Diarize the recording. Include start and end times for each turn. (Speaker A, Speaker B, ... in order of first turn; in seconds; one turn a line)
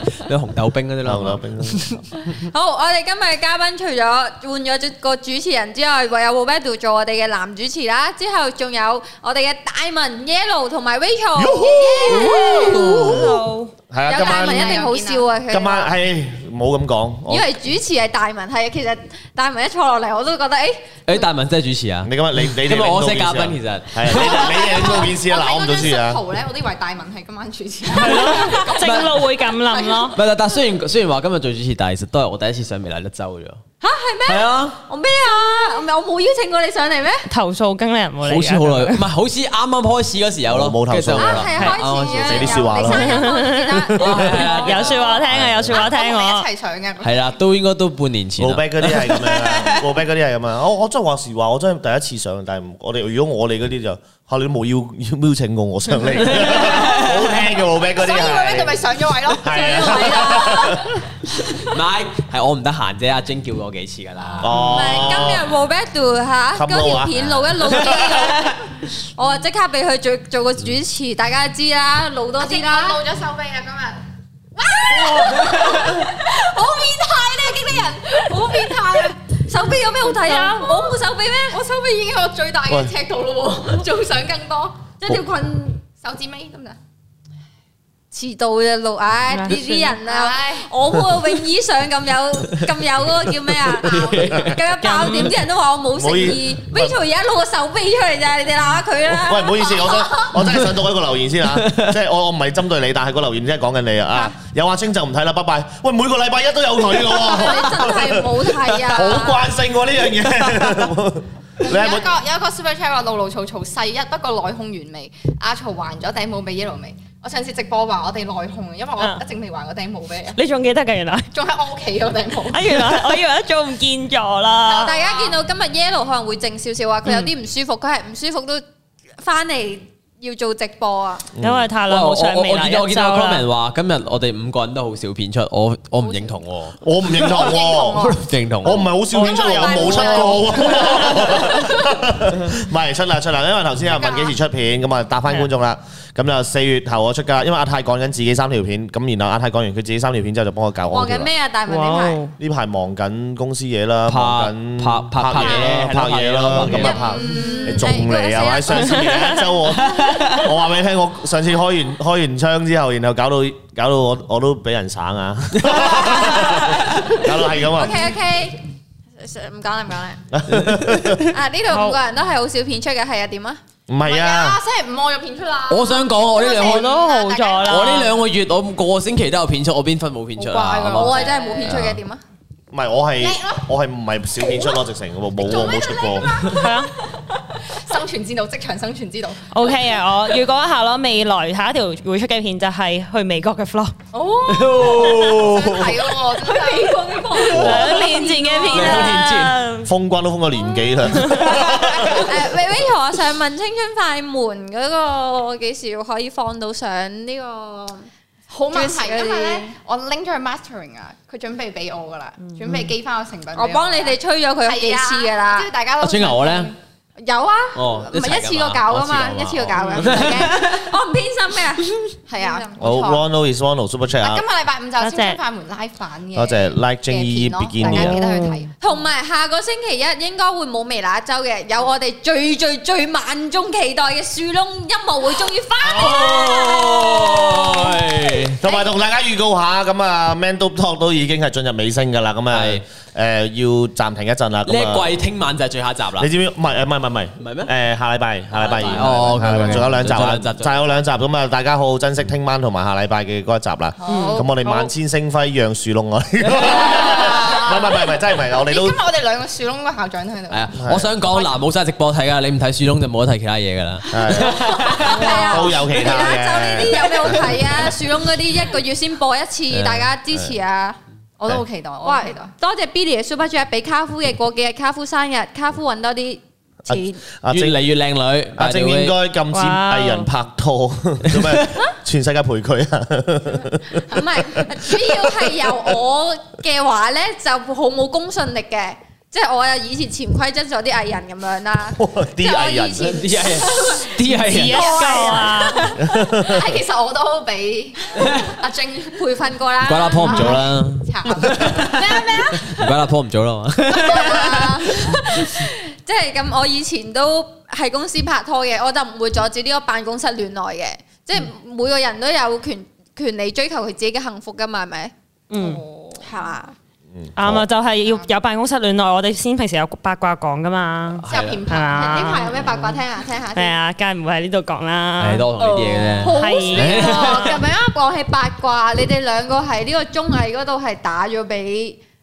Speaker A: 0.1-2.0
Speaker B: 1.0-1.9
Speaker C: 2.2-12.9
Speaker B: 11.3-14.8
Speaker D: 12.1-13.7
Speaker C: 14.1-15.9
Speaker E: 14.1-15.2
Speaker B: 15.5-17.5
Speaker C: 17.3-21.2
Speaker A: 21.1-24.6
Speaker B: 22.0-26.2
Speaker E: 24.2-30.2
Speaker D: 27.9-30.2
Speaker A: 28.0-29.1
Speaker A: 30.1-33.6
Speaker C: 33.8-37.3
Speaker A: 34.2-34.8
Speaker D: 37.3-39.0
Speaker A: 38.2-42.7
Speaker B: 40.5-41.5
Speaker C: 41.1-45.2
Speaker B: 42.2-43.2
Speaker D: 42.8-46.5
Speaker B: 43.9-44.4
Speaker A: 44.0-45.0
Speaker E: 44.4-47.2
Speaker B: 45.3-45.8
Speaker A: 47.0-49.9
Speaker B: 48.4-58.8
Speaker A: 56.2-57.3
Speaker E: 56.6-57.1
Speaker E: 57.8-60.8
Speaker B: 59.4-60.9
Speaker C: 59.4-60.8
Speaker A: 61.6-64.6
Speaker E: 64.2-64.5
Speaker B: 64.4-65.5
Speaker C: 64.6-73.0
Speaker B: 66.5-68.1
Speaker E: 72.4-74.0
Speaker E: 74.6-79.2
Speaker C: 75.0-76.1
Speaker C: 77.1-81.6
Speaker E: 81.5-84.9
Speaker C: 85.0-85.8
Speaker E: 86.0-86.8
Speaker C: 88.1-100.4
Speaker D: 89.3-90.0
Speaker E: 90.0-90.7
Speaker B: 93.9-94.5
Speaker A: 93.9-94.5
Speaker D: 94.8-95.4
Speaker B: 96.0-97.0
Speaker B: 99.0-112.1
Speaker A: 101.6-101.9
Speaker C: 106.9-109.5
Speaker E: 111.6-120.4
Speaker D: 120.3-121.3
Speaker E: 121.3-123.2
Speaker D: 122.5-125.0
Speaker C: 124.6-128.6
Speaker E: 124.9-125.4
Speaker D: 127.0-127.3
Speaker C: 129.2-131.3
Speaker B: 131.3-131.7
Speaker D: 131.4-133.4
Speaker A: 131.9-136.8
Speaker E: 136.0-136.3
Speaker B: 136.8-151.3
Speaker E: 137.1-138.8
Speaker A: 137.4-138.9
Speaker C: 139.1-141.7
Speaker D: 139.2-141.2
Speaker E: 139.4-141.8
Speaker E: 143.9-144.4
Speaker C: 150.9-152.2
Speaker D: 151.7-152.3
Speaker B: 152.4-168.1
Speaker A: 154.1-157.0
Speaker C: 156.6-159.4
Speaker E: 156.8-158.0
Speaker A: 159.7-160.4
Speaker C: 165.6-166.8
Speaker C: 167.5-168.6
Speaker C: 169.2-170.2
Speaker B: 170.3-171.3
Speaker A: 170.5-171.3
Speaker C: 171.3-173.6
Speaker D: 171.7-172.0
Speaker B: 173.9-174.6
Speaker E: 174.0-178.1
Speaker A: 175.7-177.0
Speaker D: 176.4-178.1
Speaker A: 177.7-182.0
Speaker E: 180.4-181.8
Speaker C: 180.9-182.2
Speaker B: 182.7-186.5
Speaker E: 183.2-183.6
Speaker E: 184.4-184.8
Speaker E: 185.4-190.3
Speaker D: 186.5-186.9
Speaker D: 189.5-193.9
Speaker E: 194.1-199.2
Speaker A: 194.5-195.5
Speaker B: 195.0-196.0
Speaker C: 196.3-199.0
Speaker B: 197.5-198.0
Speaker D: 197.5-199.9
Speaker A: 198.7-199.6
Speaker B: 199.8-202.5
Speaker E: 201.5-202.2
Speaker C: 201.6-208.1
Speaker E: 208.5-216.8
Speaker C: 208.7-209.8
Speaker C: 213.5-215.7
Speaker A: 216.0-216.7
Speaker C: 217.2-222.8
Speaker A: 217.7-220.9
Speaker E: 219.8-220.4
Speaker E: 222.3-223.2
Speaker B: 222.8-224.4
Speaker E: 224.2-228.7
Speaker D: 225.0-225.4
Speaker B: 226.3-228.3
Speaker D: 227.8-228.6
Speaker C: 228.8-237.3
Speaker A: 235.9-238.6
Speaker B: 238.6-245.1
Speaker A: 242.5-242.8
Speaker A: 244.7-246.3
Speaker B: 246.2-259.0
Speaker A: 247.4-247.7
Speaker A: 248.5-250.8
Speaker E: 254.0-254.8
Speaker D: 254.1-254.8
Speaker E: 256.6-261.5
Speaker A: 260.5-265.4
Speaker B: 260.8-261.1
Speaker B: 264.1-267.8
Speaker E: 264.7-266.4
Speaker C: 265.0-271.0
Speaker E: 267.2-267.5
Speaker A: 269.7-270.1
Speaker E: 271.4-272.5
Speaker C: 272.0-277.2
Speaker B: 276.9-277.8
Speaker A: 277.5-279.1
Speaker B: 278.6-285.5
Speaker D: 279.5-280.3
Speaker A: 281.3-281.6
Speaker C: 284.1-293.9
Speaker B: 292.0-293.2
Speaker A: 293.0-295.0
Speaker E: 293.4-299.4
Speaker D: 294.4-295.9
Speaker C: 294.8-295.5
Speaker B: 296.1-296.8
Speaker A: 298.2-298.5
Speaker C: 299.2-300.7
Speaker A: 299.8-305.2
Speaker E: 300.2-302.7
Speaker C: 301.9-302.9
Speaker E: 303.9-305.0
Speaker C: 303.9-315.1
Speaker D: 315.5-315.8
Speaker E: 315.5-316.3
Speaker C: 316.2-316.7
Speaker B: 317.1-317.7
Speaker D: 317.4-322.5
Speaker E: 317.9-318.3
Speaker A: 321.2-321.6
Speaker E: 321.3-323.0
Speaker C: 322.1-323.8
Speaker D: 323.5-325.5
Speaker A: 325.2-327.5
Speaker E: 325.6-327.5
Speaker C: 326.2-332.0
Speaker D: 326.2-327.6